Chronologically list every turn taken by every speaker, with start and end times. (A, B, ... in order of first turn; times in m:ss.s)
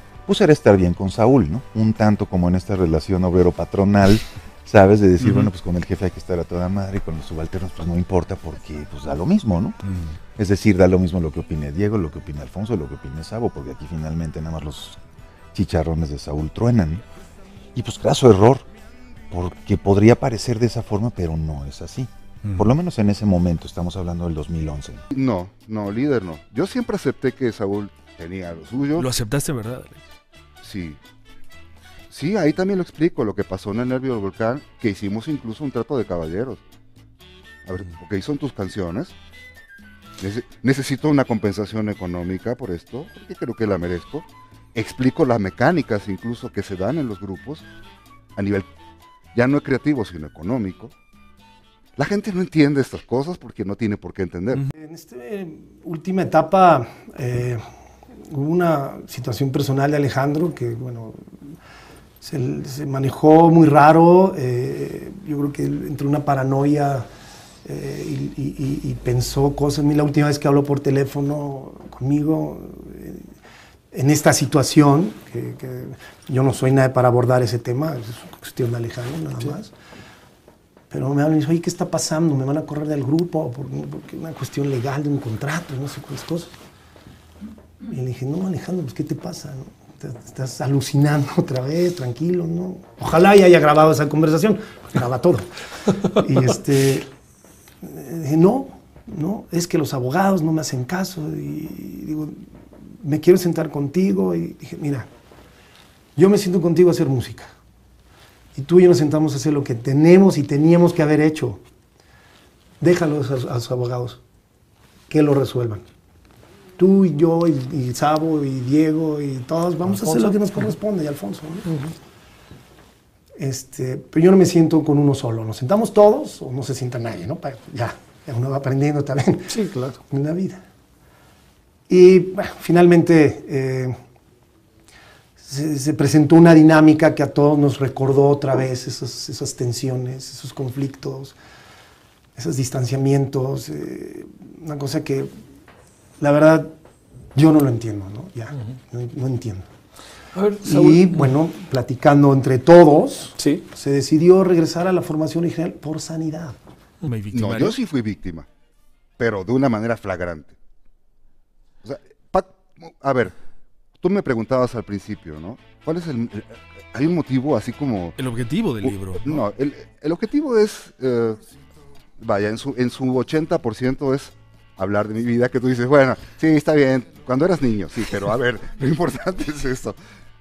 0:00.3-0:09.8 A
0:05.2-0:05.5 B
0:09.8-0:10.2 B
0:10.4-0:15.0 A
0:15.5-0:17.0 A
0:17.7-0:18.6 A
0:19.3-0:25.0 A
0:22.4-0:22.7 B
0:25.1-0:29.1 C
0:29.0-0:30.0 B
0:30.6-0:31.0 C
0:32.1-0:36.6 C
0:37.6-0:39.1 C
0:40.2-0:47.6 C
0:48.4-0:48.7 C
0:49.3-0:50.9 C
0:52.0-0:54.7 C
0:54.7-0:57.6 D
0:58.3-1:01.5 D
1:02.2-1:07.1 D
1:07.6-1:13.3 D
1:13.9-1:19.7 D
1:20.9-1:26.5 D
1:27.8-1:35.5 D
1:36.2-1:37.1 D
1:37.8-1:42.4 D
1:43.0-1:45.1 D
1:46.2-1:47.5 D
1:48.5-1:51.6 D
1:52.8-1:54.2 D
1:55.1-1:55.8 D
1:56.8-2:01.7 D
1:59.8-2:00.8 B
2:01.7-2:01.9 B
2:03.4-2:09.5 D
2:09.5-2:10.0 B
2:10.1-2:10.6 D
2:11.9-2:14.0 D
2:15.4-2:21.4 D
2:22.4-2:25.3 D
2:26.2-2:26.7 D
2:27.3-2:29.7 D
2:30.3-2:31.3 B
2:30.6-2:36.6 D
2:33.4-2:33.6 B
2:37.0-2:37.8 B
2:37.3-2:38.5 C
2:39.2-2:40.6 C
2:41.8-2:43.3 C
2:44.0-2:48.2 C
2:48.2-2:49.4 B
2:48.8-2:51.4 C
2:52.2-3:00.0 C